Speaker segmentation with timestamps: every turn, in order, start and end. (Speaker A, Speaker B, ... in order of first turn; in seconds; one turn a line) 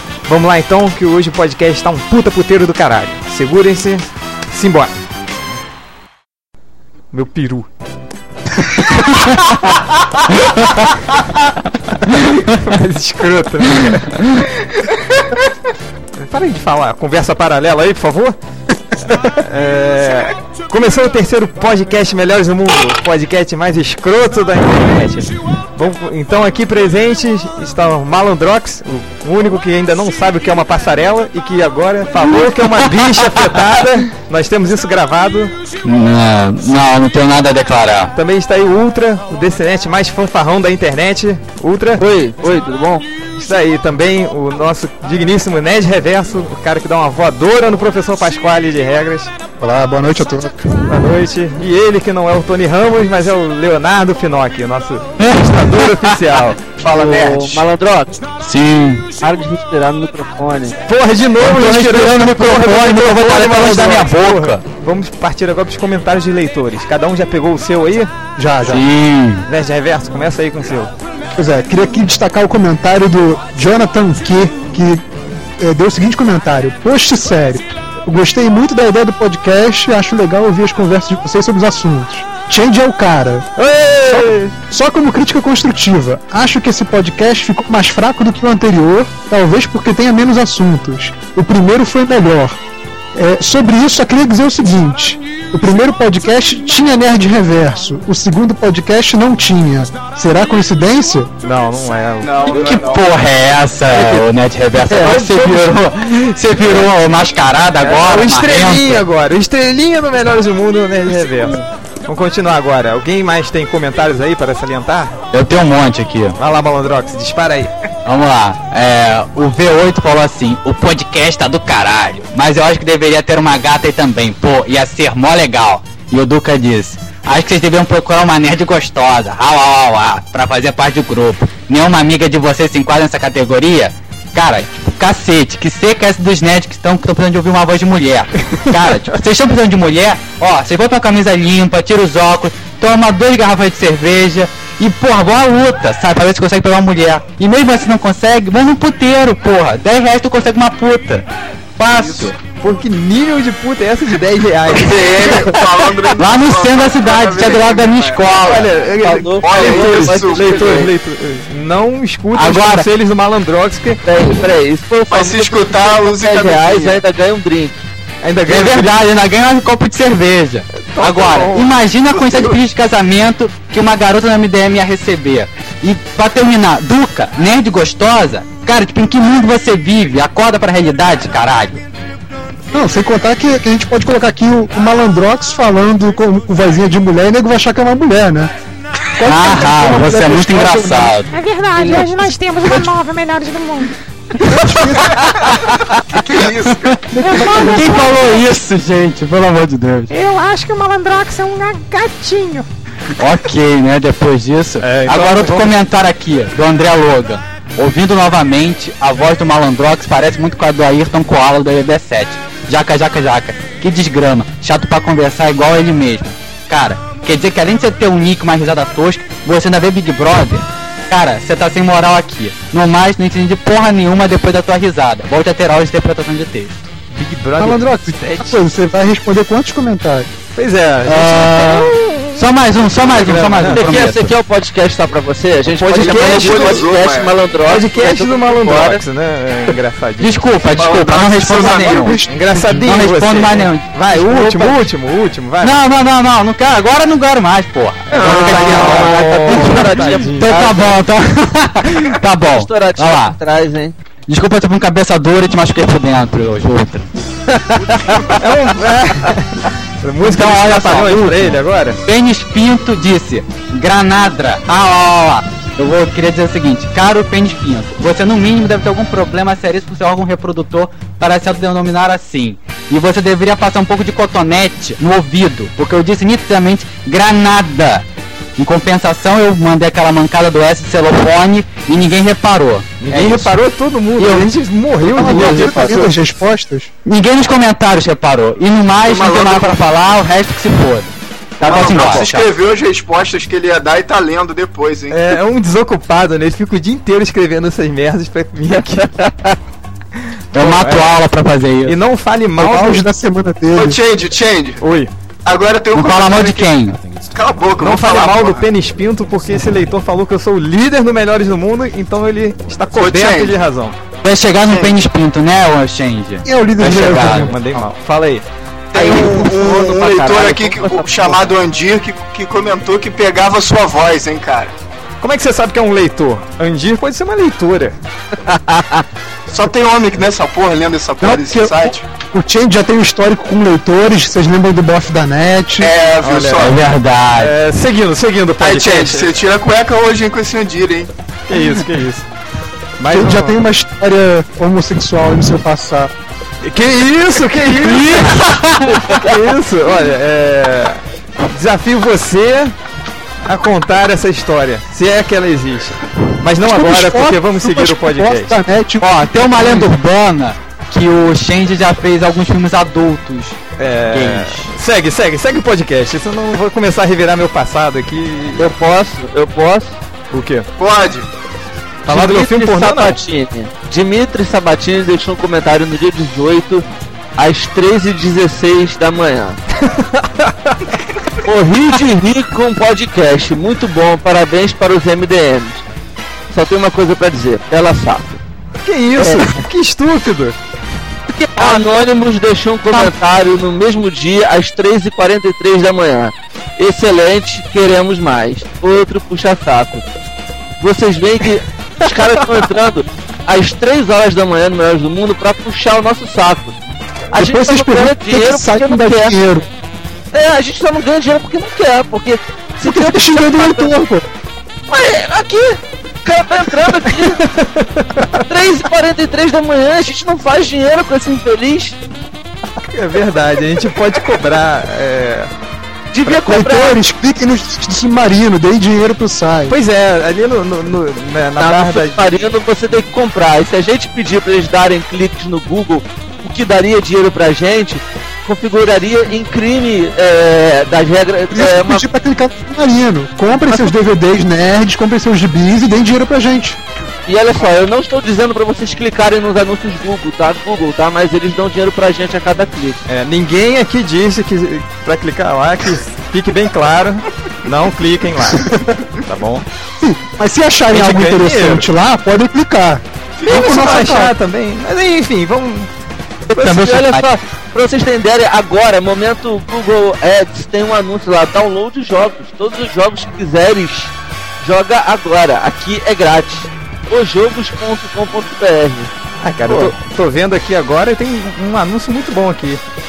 Speaker A: 0.3-5.0
Speaker A: 7.1-7.7
Speaker A: 10.6-11.3
Speaker A: 12.0-15.3
Speaker A: 16.1-18.4
Speaker A: 19.2-35.5
Speaker B: 35.8-38.1
Speaker A: 38.1-42.0
Speaker C: 42.0-43.1
Speaker A: 43.4-49.3
Speaker D: 49.6-50.7
Speaker A: 50.9-56.6
Speaker B: 55.2-56.1
Speaker E: 56.8-57.6
Speaker C: 56.8-58.2
Speaker B: 58.4-59.1
Speaker C: 59.2-60.8
Speaker A: 60.9-68.1
Speaker B: 61.4-64.6
Speaker D: 68.4-68.8
Speaker B: 68.6-69.5
Speaker A: 69.5-70.9
Speaker D: 71.4-83.5
Speaker C: 83.6-84.5
Speaker D: 84.7-92.6
Speaker D: 93.1-101.3
Speaker A: 101.4-102.4
Speaker E: 102.2-103.1
Speaker B: 102.5-109.1
Speaker A: 104.0-104.2
Speaker C: 104.9-105.5
Speaker A: 107.8-115.2
Speaker B: 115.3-116.4
Speaker A: 116.4-117.7
Speaker B: 118.0-151.3
Speaker B: 151.8-152.4
Speaker E: 152.0-152.3
Speaker A: 152.6-155.6
Speaker E: 154.7-158.4
Speaker B: 156.2-158.7
Speaker A: 158.4-164.1
Speaker C: 158.9-160.9
Speaker E: 159.4-160.9
Speaker B: 162.3-162.9
Speaker C: 164.1-167.8
Speaker E: 165.1-167.0
Speaker A: 168.2-169.0
Speaker B: 168.5-181.8
Speaker A: 170.8-171.7
Speaker E: 172.1-172.6
Speaker D: 182.7-188.5
Speaker D: 189.2-191.2
Speaker B: 189.2-191.3
Speaker F: 191.3-193.9
Speaker B: 194.4-195.8
Speaker E: 195.0-197.2
Speaker D: 197.1-198.0
Speaker F: 197.1-198.5
Speaker B: 197.4-200.1
Speaker A: 200.1-201.5
Speaker F: 200.2-202.6
Speaker A: 202.0-202.7
Speaker B: 203.2-226.9
Speaker A: 204.8-205.8
Speaker A: 227.1-228.6
Speaker D: 227.6-230.3
Speaker A: 230.6-233.8
Speaker B: 231.1-234.4
Speaker C: 233.7-239.0
Speaker A: 235.8-236.9
Speaker E: 235.9-237.3
Speaker A: 237.7-240.4
Speaker B: 240.2-244.8
Speaker E: 240.8-242.2
Speaker A: 241.6-245.8
Speaker D: 241.9-242.7
Speaker B: 245.6-253.4
Speaker A: 248.1-250.6
Speaker C: 248.1-250.9
Speaker C: 252.5-253.9
Speaker B: 254.3-257.1
Speaker C: 257.5-258.4
Speaker A: 258.3-262.0
Speaker B: 260.2-278.1
Speaker B: 278.6-283.6
Speaker A: 283.0-286.2
Speaker B: 284.2-284.5
Speaker D: 285.1-286.9
Speaker C: 285.3-285.7
Speaker B: 287.1-292.5
Speaker E: 289.0-289.9
Speaker E: 291.6-295.4
Speaker C: 291.8-292.1
Speaker A: 295.1-299.1
Speaker C: 298.7-299.6
Speaker A: 300.1-301.2
Speaker B: 300.6-302.0
Speaker A: 301.9-303.0
Speaker D: 302.6-304.0
Speaker E: 303.8-304.8
Speaker A: 304.8-305.1
Speaker E: 305.4-306.7
Speaker B: 305.9-307.0
Speaker E: 307.3-308.7
Speaker A: 307.8-314.0
Speaker E: 312.9-313.6
Speaker B: 314.2-317.9
Speaker E: 314.6-315.1
Speaker D: 316.4-317.6
Speaker A: 316.8-318.4
Speaker E: 318.9-324.7
Speaker C: 318.9-321.5
Speaker A: 325.2-328.0
Speaker C: 328.5-329.0
Speaker E: 329.5-332.0
Speaker D: 331.2-335.9
Speaker E: 335.8-336.8
Speaker A: 336.2-336.8
Speaker B: 336.6-337.5
Speaker A: 337.4-339.3
Speaker E: 338.6-341.1
Speaker A: 341.5-342.3
Speaker A: 343.0-343.6
Speaker D: 343.1-346.1
Speaker A: 346.6-352.8
Speaker B: 347.8-349.1
Speaker C: 349.1-349.4
Speaker A: 353.4-358.6
Speaker D: 356.6-359.9
Speaker B: 359.0-364.7
Speaker A: 363.8-368.7
Speaker C: 368.6-370.0
Speaker A: 370.3-370.7
Speaker E: 370.8-371.3
Speaker A: 372.0-373.2
Speaker C: 372.1-376.8
Speaker C: 377.4-379.6
Speaker A: 379.8-380.8
Speaker C: 381.4-385.9
Speaker C: 386.5-388.4
Speaker A: 388.8-390.6
Speaker C: 389.2-389.6
Speaker B: 391.4-392.1
Speaker C: 391.6-400.1
Speaker C: 400.8-406.8
Speaker C: 407.3-409.4
Speaker D: 407.3-409.7
Speaker C: 410.3-414.0
Speaker D: 412.8-414.2
Speaker C: 414.9-417.5
Speaker A: 417.3-418.4
Speaker C: 418.3-422.0
Speaker A: 422.8-425.5
Speaker C: 426.1-427.0
Speaker D: 426.5-429.8
Speaker A: 429.7-432.3
Speaker C: 431.6-442.1
Speaker D: 441.5-446.8
Speaker C: 447.3-453.0
Speaker A: 453.1-458.7
Speaker D: 458.6-458.9
Speaker A: 459.2-459.7
Speaker D: 460.0-464.3
Speaker A: 460.9-461.9
Speaker E: 463.4-464.1
Speaker A: 463.4-465.9
Speaker C: 466.5-479.1
Speaker B: 466.5-467.3
Speaker A: 479.4-482.8
Speaker C: 479.7-479.9